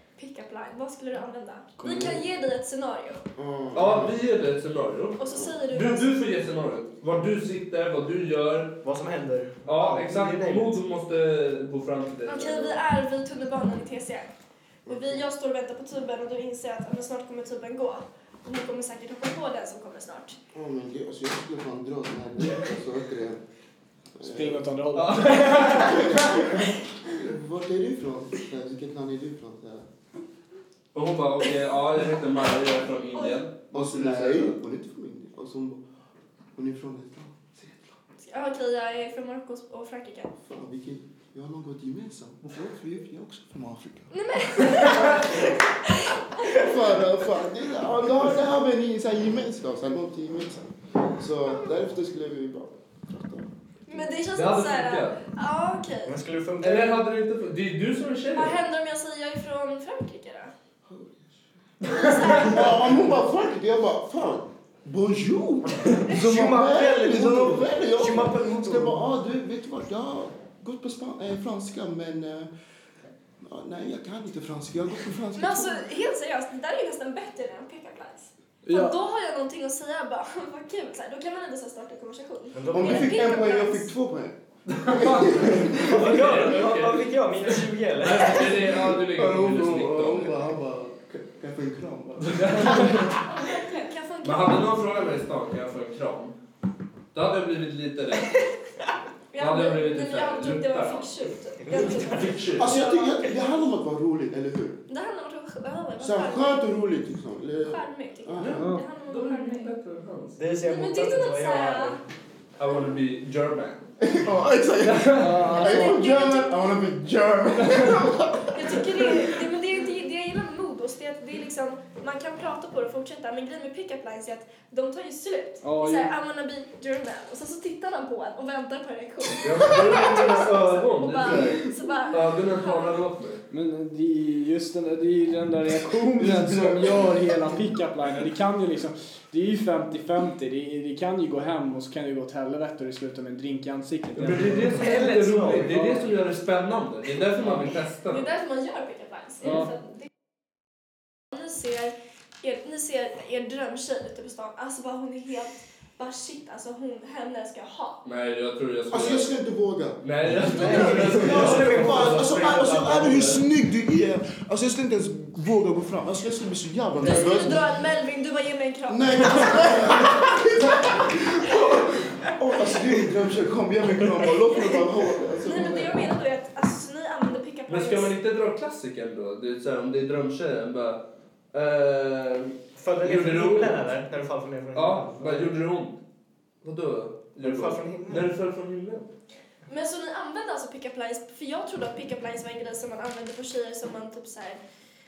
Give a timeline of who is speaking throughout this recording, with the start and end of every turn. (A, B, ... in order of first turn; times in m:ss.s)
0:00.2-0:03.2 A
0:01.8-0:02.2 B
0:03.4-0:04.2 B
0:03.7-0:08.8 C
0:05.2-0:06.1 A
0:08.8-0:10.8 D
0:09.6-0:12.8 C
0:12.3-0:14.3 A
0:14.9-0:15.2 B
0:14.9-0:20.4 A
0:20.5-0:23.4 B
0:24.2-0:24.6 B
0:24.2-0:26.4 E
0:25.0-0:26.1 C
0:25.8-0:26.4 B
0:27.1-0:29.9 B
0:30.9-0:34.5 C
0:33.2-0:33.4 A
0:33.7-0:35.8 B
0:36.6-0:38.0 B
0:38.2-0:40.3 A
0:40.4-0:44.9 B
0:44.1-0:46.7 A
0:44.7-0:45.1 C
0:46.4-0:53.5 B
0:53.9-0:56.2 A
0:54.3-0:55.2 C
0:56.0-0:57.0 D
0:56.6-0:58.6 C
0:58.3-1:00.5 A
1:00.9-1:01.4 B
1:01.8-1:02.8 A
1:01.9-1:02.3 C
1:02.2-1:12.5 B
1:05.8-1:09.0 D
1:13.4-1:15.8 B
1:15.3-1:23.9 A
1:18.6-1:19.0 E
1:22.5-1:23.3 D
1:22.7-1:25.9 B
1:24.7-1:30.3 C
1:25.6-1:28.7 D
1:29.1-1:33.1 B
1:32.2-1:33.2 C
1:33.2-1:34.8 A
1:34.2-1:36.4 C
1:37.1-1:38.4 C
1:39.3-1:43.4 A
1:39.4-1:41.1 C
1:41.6-1:43.1 D
1:41.7-1:42.8 C
1:42.6-1:44.8 B
1:44.9-1:46.6 A
1:46.0-1:48.7 B
1:47.6-1:49.7 A
1:48.4-1:50.4 C
1:48.5-1:48.9 E
1:50.4-1:52.0 D
1:50.6-1:52.0 A
1:52.6-1:54.0 C
1:54.0-1:59.3 B
1:54.8-1:55.4 C
1:55.2-1:56.0 E
1:55.5-1:56.6 A
1:57.7-1:58.0 C
1:58.5-2:13.0 A
2:05.6-2:06.1 E
2:09.4-2:13.4 C
2:13.5-2:24.7 E
2:16.2-2:17.6 B
2:24.2-2:28.3 C
2:24.7-2:25.8 D
2:25.7-2:26.1 E
2:28.1-2:30.1 A
2:29.4-2:29.7 E
2:31.3-2:38.0 A
2:38.0-2:39.3 C
2:38.9-2:47.8 B
2:40.0-2:43.4 C
2:40.4-2:42.8 D
2:47.0-2:51.0 A
2:48.9-2:56.1 B
2:54.5-2:58.1 A
2:57.7-3:03.8 C
3:02.8-3:05.6 D
3:04.7-3:06.0 C
3:06.6-3:09.1 C
3:07.4-3:08.3 D
3:09.7-3:14.6 A